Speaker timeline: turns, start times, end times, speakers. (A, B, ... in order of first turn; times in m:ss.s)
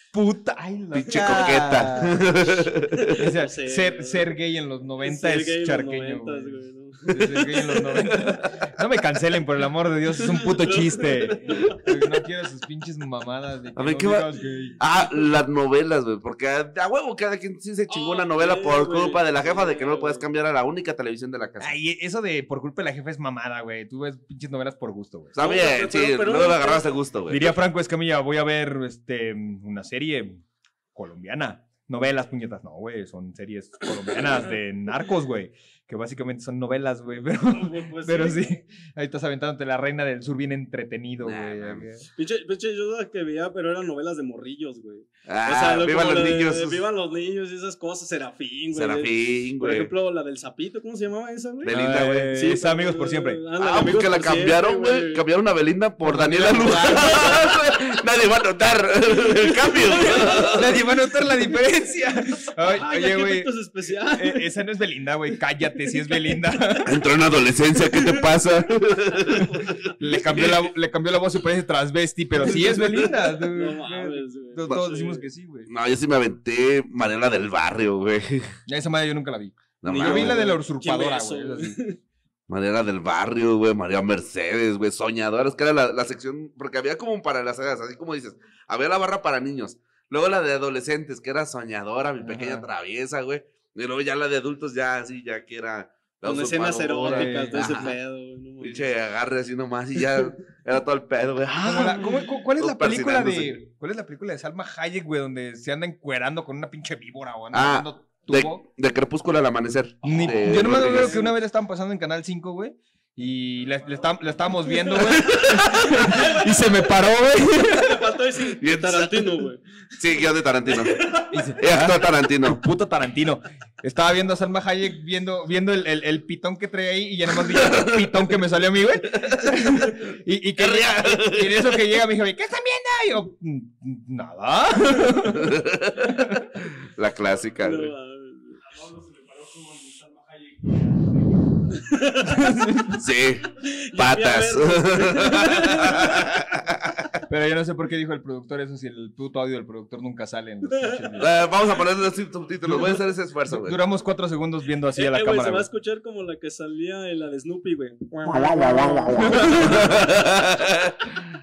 0:00.1-0:02.3 A
0:00.9-0:03.2 B
0:03.0-0:04.3 C
0:03.1-0:14.8 A
0:05.0-0:07.8 C
0:07.2-0:08.5 B
0:10.2-0:12.0 C
0:13.8-0:21.8 B
0:17.9-0:20.2 C
0:21.6-0:25.4 A
0:25.3-0:27.5 B
0:25.4-0:26.9 C
0:27.3-0:30.4 A
0:30.9-0:42.0 A
0:37.5-0:38.4 C
0:41.2-0:41.8 B
0:42.2-0:51.8 C
0:45.3-0:46.8 B
0:48.7-0:49.9 B
0:51.6-0:52.4 B
0:51.7-0:53.4 A
0:52.3-0:55.2 C
0:53.6-1:00.8 B
0:56.0-0:57.4 A
0:56.6-0:57.5 C
0:59.1-1:00.8 C
1:00.4-1:03.5 A
1:02.7-1:04.5 C
1:04.1-1:06.9 A
1:06.8-1:10.6 B
1:07.8-1:10.5 C
1:10.0-1:15.7 A
1:12.4-1:15.2 C
1:15.7-1:18.5 B
1:18.7-1:21.8 A
1:19.8-1:20.4 B
1:19.8-1:22.0 C
1:22.5-1:38.0 B
1:32.2-1:32.7 A
1:36.2-1:38.9 C
1:37.1-1:37.7 A
1:38.6-1:43.6 B
1:41.6-1:48.6 A
1:47.5-1:51.2 B
1:50.0-1:58.0 A
1:50.1-1:51.3 C
1:55.2-1:55.9 B
1:55.6-1:56.9 C
1:57.7-2:00.1 C
1:58.6-2:02.6 B
2:00.7-2:01.4 C
2:01.3-2:16.7 A
2:07.5-2:08.1 B
2:09.1-2:09.9 B
2:10.6-2:12.0 B
2:15.3-2:16.2 B
2:16.8-2:17.9 B
2:17.6-2:18.6 C
2:21.7-2:22.9 C
2:22.2-2:23.0 A
2:22.9-2:27.1 B
2:23.5-2:26.3 C
2:27.3-2:31.3 A
2:30.7-2:31.0 C
2:31.2-2:33.8 B
2:32.6-2:32.9 A
2:33.5-2:35.7 A
2:34.9-2:40.3 C
2:38.2-2:41.2 B
2:38.5-2:40.0 A